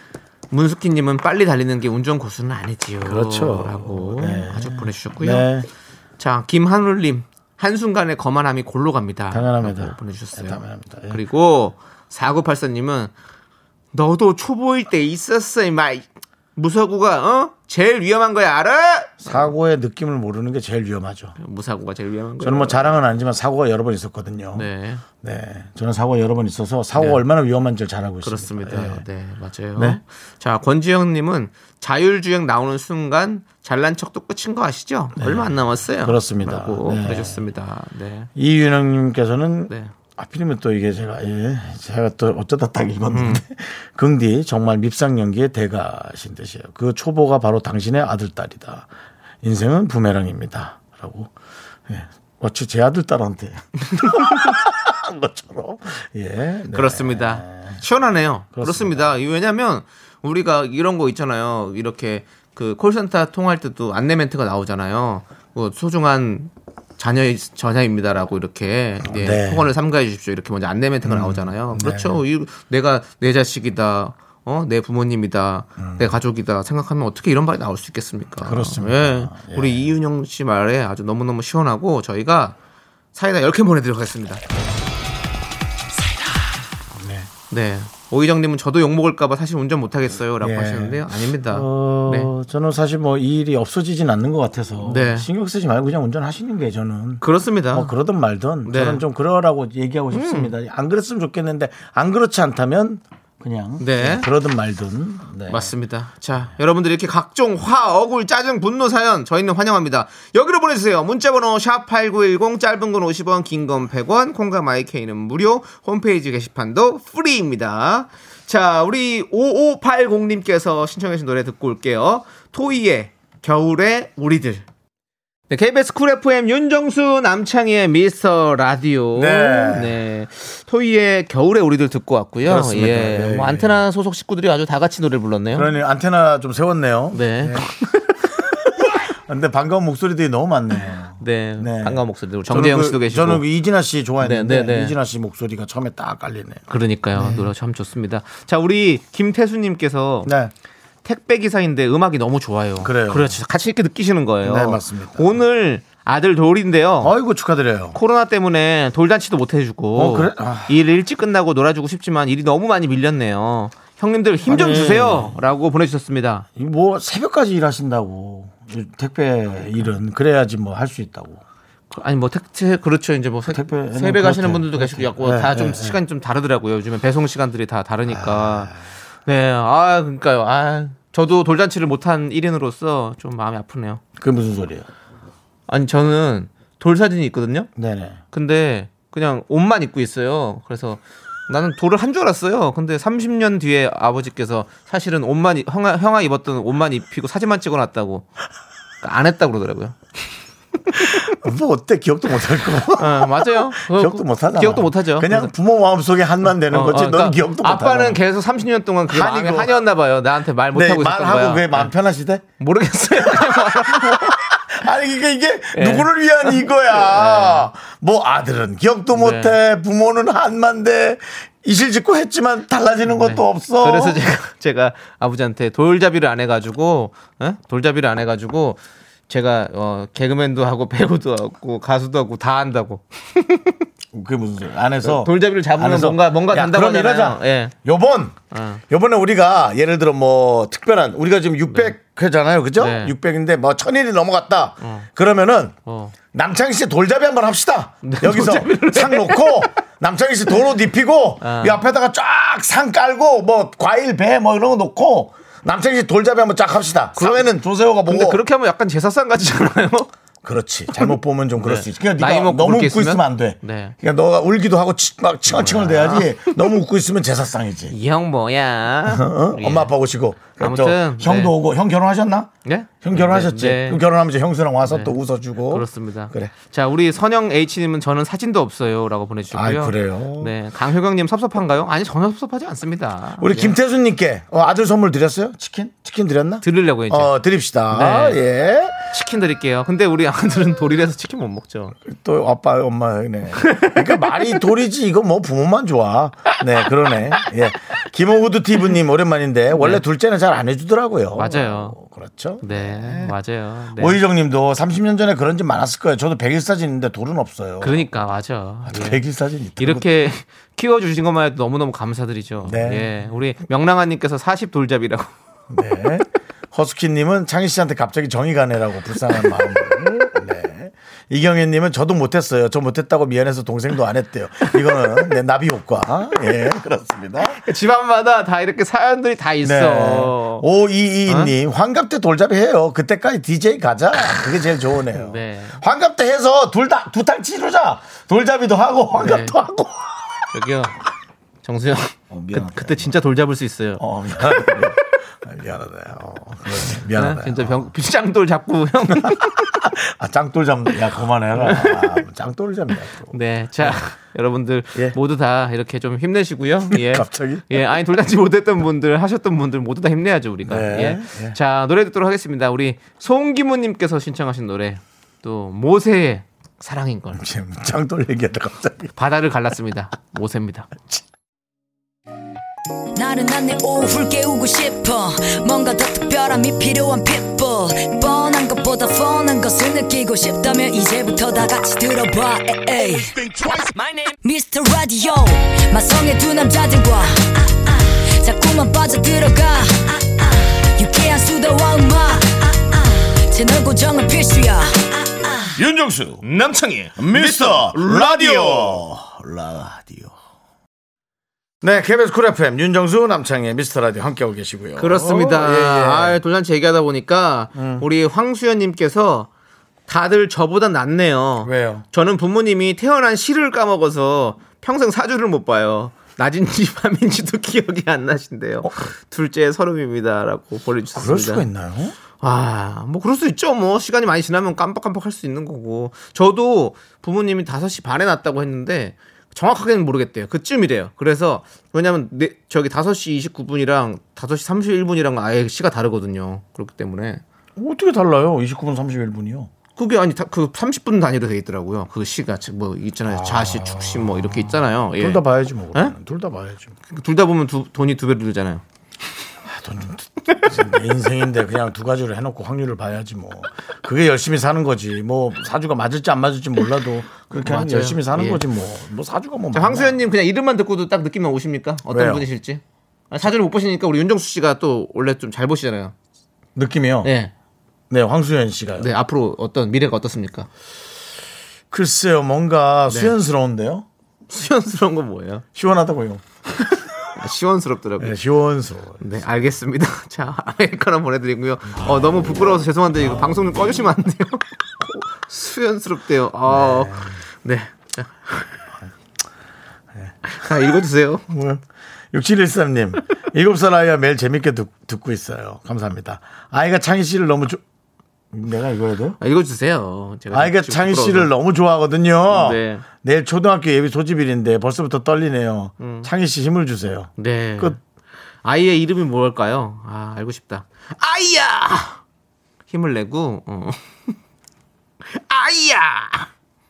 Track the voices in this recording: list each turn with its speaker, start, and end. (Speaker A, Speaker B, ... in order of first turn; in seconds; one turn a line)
Speaker A: 0.5-5.5
Speaker B: 3.0-5.7
Speaker A: 6.2-13.1
Speaker B: 9.3-11.2
Speaker A: 13.9-19.5
Speaker B: 19.2-21.4
Speaker A: 21.4-22.9
Speaker B: 22.4-24.7
Speaker A: 24.5-25.0
Speaker B: 25.2-29.1
Speaker A: 26.9-27.2
Speaker A: 28.2-38.3
Speaker B: 35.2-37.4
Speaker B: 38.4-48.9
Speaker A: 43.1-43.4
Speaker B: 49.4-51.3
Speaker B: 51.9-57.8
Speaker A: 53.9-54.5
Speaker A: 56.7-82.6
Speaker B: 58.5-59.1
Speaker B: 69.0-69.7
Speaker B: 71.0-72.2
Speaker B: 75.8-76.1
Speaker B: 78.4-79.9
Speaker A: 83.1-84.4
Speaker B: 86.9-87.3
Speaker A: 87.5-92.3
Speaker B: 90.4-105.7
Speaker A: 94.8-95.3
Speaker A: 97.2-97.9
Speaker A: 98.6-99.0
Speaker A: 100.1-100.5
Speaker A: 103.8-104.3
Speaker A: 105.5-124.7
Speaker A: 125.5-135.7
Speaker B: 129.1-130.0
Speaker B: 132.4-133.8
Speaker B: 135.5-137.7
Speaker A: 137.1-138.2
Speaker B: 139.3-147.5
Speaker A: 141.2-143.4
Speaker A: 144.2-144.9
Speaker A: 146.7-150.3
Speaker B: 150.2-150.5
Speaker A: 151.0-157.1
Speaker B: 152.8-153.4
Speaker B: 154.4-155.4
Speaker B: 157.0-158.0
Speaker A: 157.9-166.4
Speaker B: 159.9-160.8
Speaker B: 164.4-165.4
Speaker B: 166.5-171.4
Speaker A: 171.9-178.7
Speaker B: 173.5-176.0
Speaker B: 178.1-178.8
Speaker A: 179.2-184.0
Speaker B: 184.2-184.9
Speaker A: 185.7-187.7
Speaker B: 187.8-188.2
Speaker A: 188.3-198.3
Speaker A: 199.0-200.0
Speaker A: 200.9-201.2
Speaker B: 200.9-208.2
Speaker A: 203.0-205.5
Speaker A: 206.7-211.9
Speaker B: 209.1-209.8
Speaker B: 210.7-212.4
Speaker A: 212.6-214.3
Speaker B: 213.1-224.2
Speaker A: 215.7-217.7
Speaker A: 219.1-219.5
Speaker A: 223.1-233.8
Speaker B: 234.1-238.4
Speaker A: 235.0-237.7
Speaker A: 238.5-238.8
Speaker B: 238.9-245.7
Speaker A: 242.8-243.1
Speaker A: 244.8-245.1
Speaker A: 245.9-246.1
Speaker B: 246.3-258.4
Speaker A: 248.0-249.7
Speaker A: 251.4-251.8
Speaker A: 257.2-257.5
Speaker A: 258.1-260.1
Speaker B: 260.4-267.9
Speaker A: 261.0-263.9
Speaker A: 265.5-266.4
Speaker A: 267.9-269.9
Speaker B: 269.1-272.5
Speaker A: 270.6-271.5
Speaker A: 272.6-274.0
Speaker B: 273.0-276.5
Speaker A: 274.9-275.1
Speaker A: 275.7-283.8
Speaker B: 279.5-280.5
Speaker B: 283.4-288.9
Speaker A: 286.6-287.3
Speaker A: 287.9-288.4
Speaker A: 289.1-291.9
Speaker B: 292.0-303.4
Speaker A: 293.6-294.6
Speaker A: 299.8-300.0
Speaker A: 301.4-301.9
Speaker A: 302.6-304.2
Speaker B: 303.9-308.1
Speaker A: 307.8-309.2
Speaker B: 308.9-310.1
Speaker A: 309.8-315.3
Speaker B: 312.6-313.1
Speaker B: 315.7-327.6
Speaker A: 327.4-330.6
Speaker B: 329.6-340.1
Speaker A: 331.3-331.5
Speaker A: 335.1-335.8
Speaker A: 339.2-339.6
Speaker A: 340.5-341.0
Speaker A: 341.6-344.9
Speaker B: 342.3-343.1
Speaker B: 344.0-347.9
Speaker A: 347.1-349.8
Speaker B: 349.2-354.0
Speaker A: 351.6-352.2
Speaker A: 353.3-367.4
Speaker B: 356.9-357.8
Speaker B: 360.6-361.6
Speaker B: 367.3-369.1
Speaker A: 369.1-371.1
Speaker C: 373.1-383.7
Speaker C: 384.4-395.8
Speaker B: 395.7-396.4
Speaker A: 396.4-399.0
Speaker B: 397.2-400.4
Speaker B: 401.8-406.4
Speaker A: 405.0-409.5
Speaker B: 407.7-408.1
Speaker A: 410.1-421.7
Speaker B: 411.6-412.1
Speaker B: 418.8-419.1
Speaker B: 421.1-422.1
Speaker A: 422.4-437.4
Speaker B: 437.8-439.7
Speaker A: 439.9-445.4
Speaker B: 443.3-446.9
Speaker A: 447.1-448.8
Speaker B: 449.6-460.2
Speaker A: 457.6-458.6
Speaker A: 459.7-466.1
Speaker B: 462.1-462.4
Speaker B: 466.7-467.3
Speaker A: 467.2-467.5
Speaker B: 468.1-469.1
Speaker A: 469.0-470.7
Speaker B: 471.9-474.1
Speaker A: 473.1-473.3
Speaker A: 474.5-475.6
Speaker B: 475.7-476.4
Speaker A: 477.3-478.4
Speaker B: 478.2-479.2
Speaker A: 479.2-488.9
Speaker B: 482.0-482.7
Speaker B: 486.6-487.4
Speaker A: 490.4-491.4
Speaker B: 491.5-497.8
Speaker B: 498.5-499.4
Speaker A: 499.4-501.5
Speaker B: 500.5-508.0
Speaker A: 502.5-503.0
Speaker A: 506.0-506.3
Speaker A: 507.4-508.0
Speaker A: 508.6-512.2
Speaker A: 512.9-514.4
Speaker A: 515.2-516.5